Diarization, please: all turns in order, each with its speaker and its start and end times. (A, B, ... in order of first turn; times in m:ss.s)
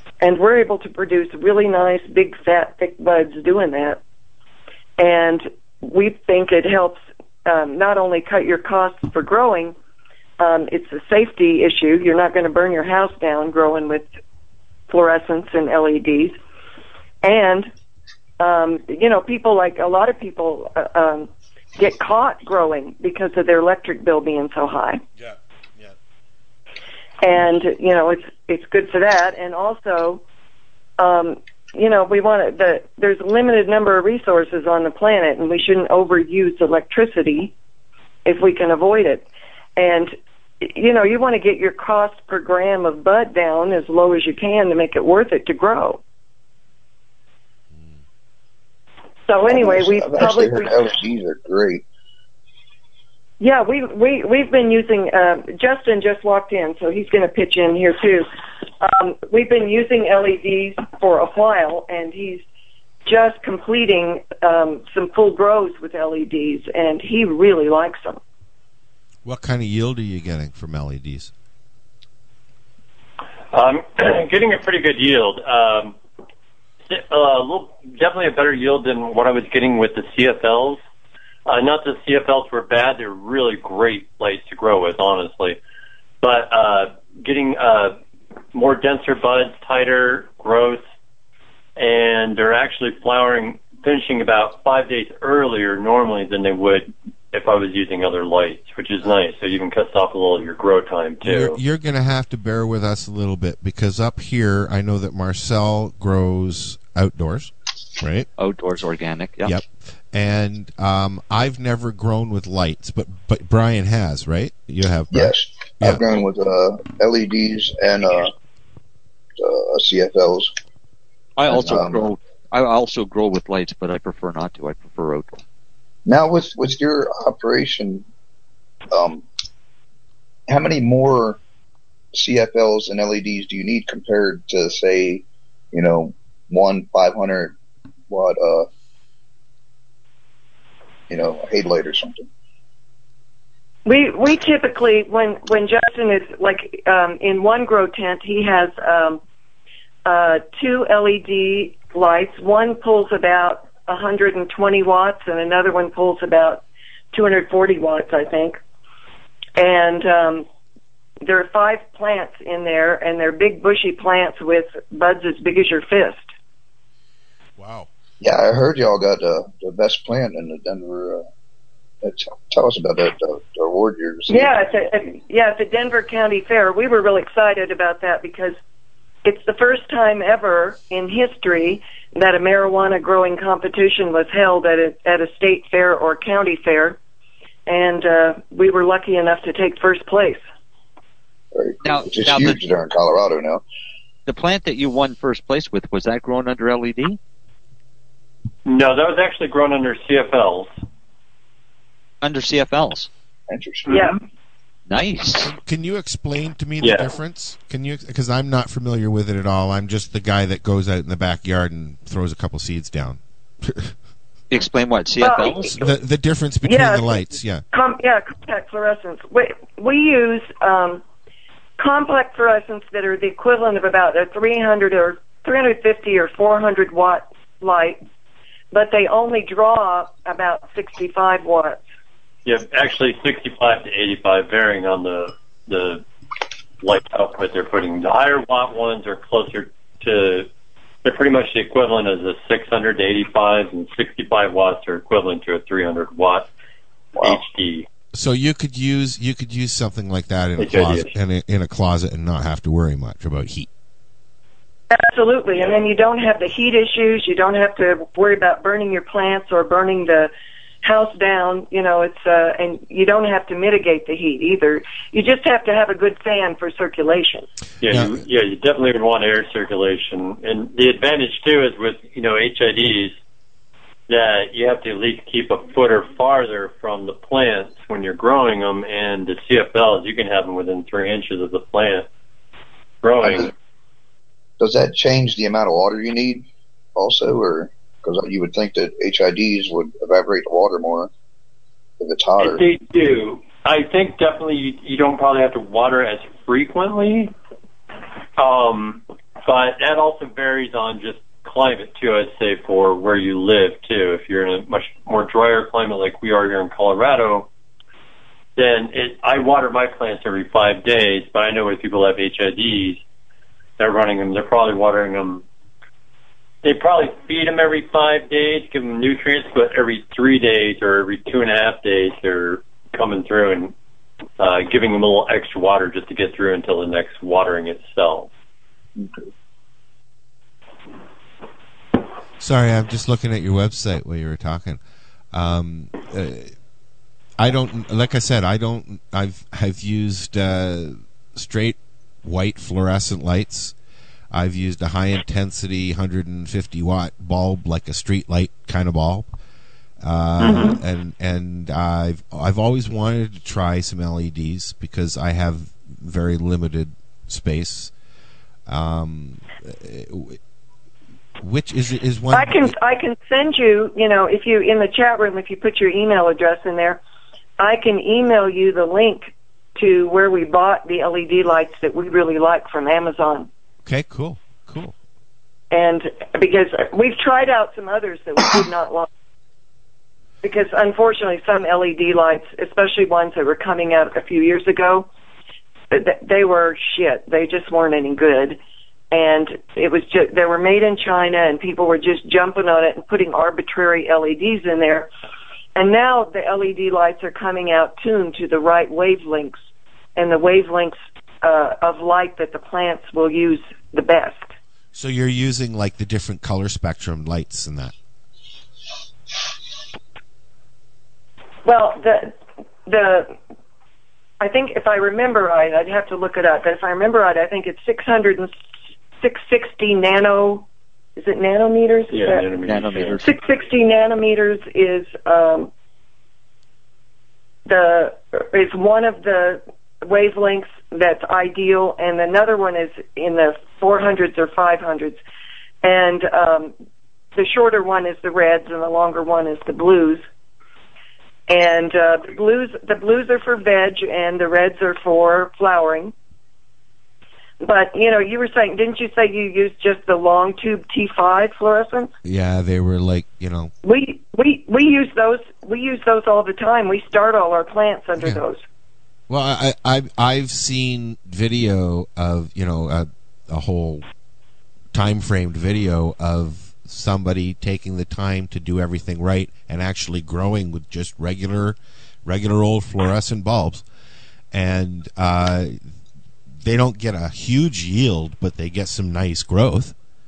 0:00.2-0:04.0 A
0:05.0-0:09.8 A
0:10.4-0:14.1 A
0:14.9-0:16.4 A
0:17.2-0:17.7 A
0:18.4-0:25.0 A
0:25.2-0:25.9 B
0:27.2-0:30.2 A
0:31.0-0:37.5 A
0:38.2-0:39.2 A
0:39.8-0:46.0 A
0:49.3-0:50.7 A
0:49.5-0:51.8 C
0:53.4-0:58.3 A
0:58.8-1:02.4 A
1:03.0-1:08.2 A
1:09.2-1:11.3 B
1:13.5-1:16.0 D
1:16.9-1:20.8 D
1:21.5-1:25.6 D
1:26.2-1:28.0 D
1:28.5-1:30.8 D
1:31.8-1:41.6 D
1:41.2-1:48.3 B
1:48.4-1:49.6 E
1:49.4-1:56.2 B
1:55.1-1:58.3 C
1:59.4-2:00.5 C
2:01.4-2:05.4 E
2:01.5-2:02.1 C
2:06.1-2:08.1 C
2:08.9-2:09.2 C
2:10.5-2:11.4 C
2:12.1-2:17.6 C
2:18.1-2:18.7 C
2:21.1-2:22.3 C
2:23.9-2:29.2 A
2:30.0-2:38.6 A
2:39.6-2:40.5 A
2:41.2-2:46.3 A
2:47.6-2:47.9 B
2:48.2-2:51.2 C
2:52.0-2:54.5 C
2:54.3-2:58.6 A
2:59.2-3:07.0 A
3:07.7-3:10.4 A
3:11.5-3:13.6 C
3:11.8-3:12.6 E
3:14.3-3:17.2 E
3:18.7-3:20.7 D
3:22.2-3:23.1 E
3:23.5-3:23.9 C
3:23.9-3:24.2 A
3:24.9-3:25.5 E
3:25.4-3:33.9 B
3:26.8-3:27.1 D
3:34.5-3:35.8 E
3:35.2-3:35.8 A
3:35.7-3:37.6 B
3:36.6-3:41.0 A
3:41.8-3:48.0 A
3:48.7-3:51.8 A
3:52.4-3:56.0 D
3:56.8-4:00.5 D
4:01.0-4:06.5 D
4:07.2-4:07.4 C
4:07.2-4:07.9 D
4:08.1-4:13.7 B
4:10.6-4:11.1 D
4:14.9-4:20.3 A
4:20.8-4:27.5 A
4:27.8-4:33.2 D
4:27.9-4:28.2 B
4:34.1-4:42.1 D
4:43.0-4:43.5 D
4:43.2-4:43.5 C
4:44.6-4:51.1 C
4:52.0-4:52.7 C
4:52.4-4:57.3 D
4:58.4-5:07.5 D
5:08.6-5:13.0 D
5:13.8-5:15.4 D
5:16.6-5:23.7 D
5:24.4-5:28.3 D
5:29.0-5:29.3 C
5:32.4-5:34.8 B
5:35.3-5:36.5 B
5:37.4-5:43.8 B
5:44.3-5:49.3 B
5:50.0-5:57.9 B
5:50.4-5:50.8 A
5:58.7-6:00.4 B
6:01.4-6:02.7 B
6:02.3-6:07.0 A
6:07.6-6:13.5 A
6:13.8-6:14.9 B
6:15.7-6:19.1 A
6:20.4-6:25.1 A
6:25.9-6:28.6 A
6:29.1-6:35.1 A
6:35.8-6:39.6 A
6:40.2-6:44.5 A
6:44.9-6:47.9 B
6:51.6-6:53.4 A
6:54.4-6:58.5 A
6:59.2-7:00.7 A
7:01.2-7:02.5 A
7:02.1-7:03.2 D
7:02.6-7:03.4 E
7:03.2-7:05.7 A
7:07.7-7:15.2 A
7:15.8-7:16.7 A
7:17.4-7:20.2 A
7:21.5-7:26.1 A
7:27.6-7:32.1 A
7:32.2-7:33.7 B
7:33.8-7:38.6 A
7:39.3-7:44.1 B
7:44.9-7:53.9 B
7:54.5-7:55.8 B
7:56.6-8:00.0 B